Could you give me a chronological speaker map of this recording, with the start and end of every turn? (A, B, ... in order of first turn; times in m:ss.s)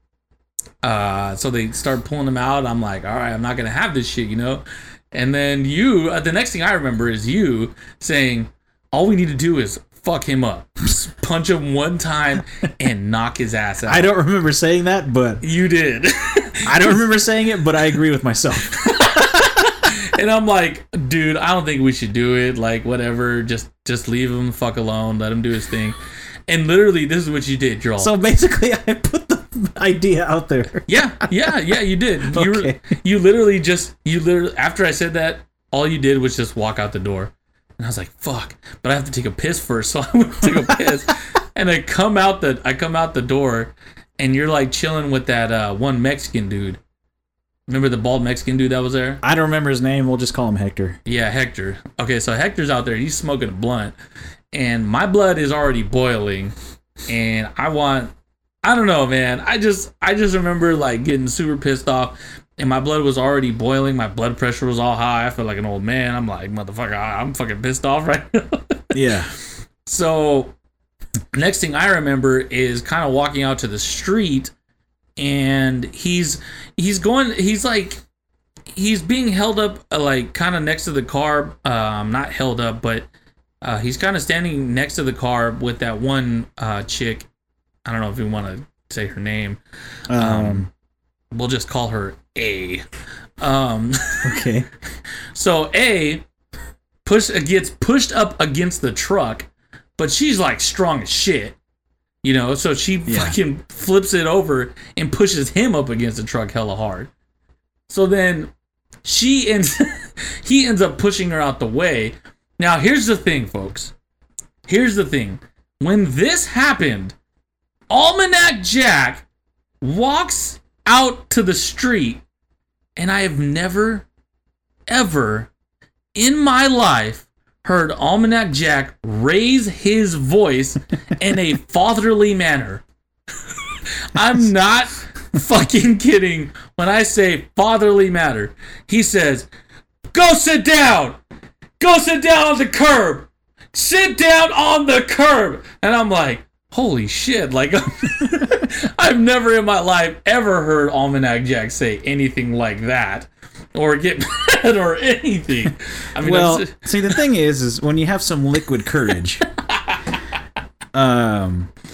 0:00.8-0:14.1 A
0:13.9-0:15.4 B
0:15.4-0:17.0 A
0:16.7-0:19.7 B
0:18.8-0:28.1 A
0:28.0-0:31.5 B
0:30.9-0:46.8 A
0:32.2-0:32.8 B
0:47.7-0:49.2 A
0:49.2-0:51.0 B
0:51.1-0:54.0 A
0:54.5-0:56.5 A
0:57.1-1:08.9 A
1:08.9-1:09.3 B
1:09.9-1:10.5 A
1:11.3-1:14.5 A
1:15.2-1:18.0 A
1:18.7-1:23.1 A
1:23.6-1:27.3 A
1:27.8-1:29.6 A
1:30.1-1:30.7 B
1:30.1-1:30.7 A
1:31.3-1:32.8 A
1:33.4-1:34.4 A
1:34.2-1:34.7 B
1:35.3-1:36.2 A
1:37.0-1:41.6 A
1:42.2-1:47.1 A
1:43.1-1:43.4 B
1:47.9-1:48.5 A
1:49.0-1:53.9 A
1:54.7-1:57.2 A
1:57.9-1:59.2 A
1:59.8-2:02.2 A
2:03.0-2:04.1 A
2:04.9-2:05.5 A
2:06.2-2:12.8 A
2:13.7-2:19.5 A
2:20.1-2:21.2 A
2:21.8-2:37.1 A
2:36.2-2:39.4 B
2:39.7-2:40.0 A
2:40.9-2:41.7 B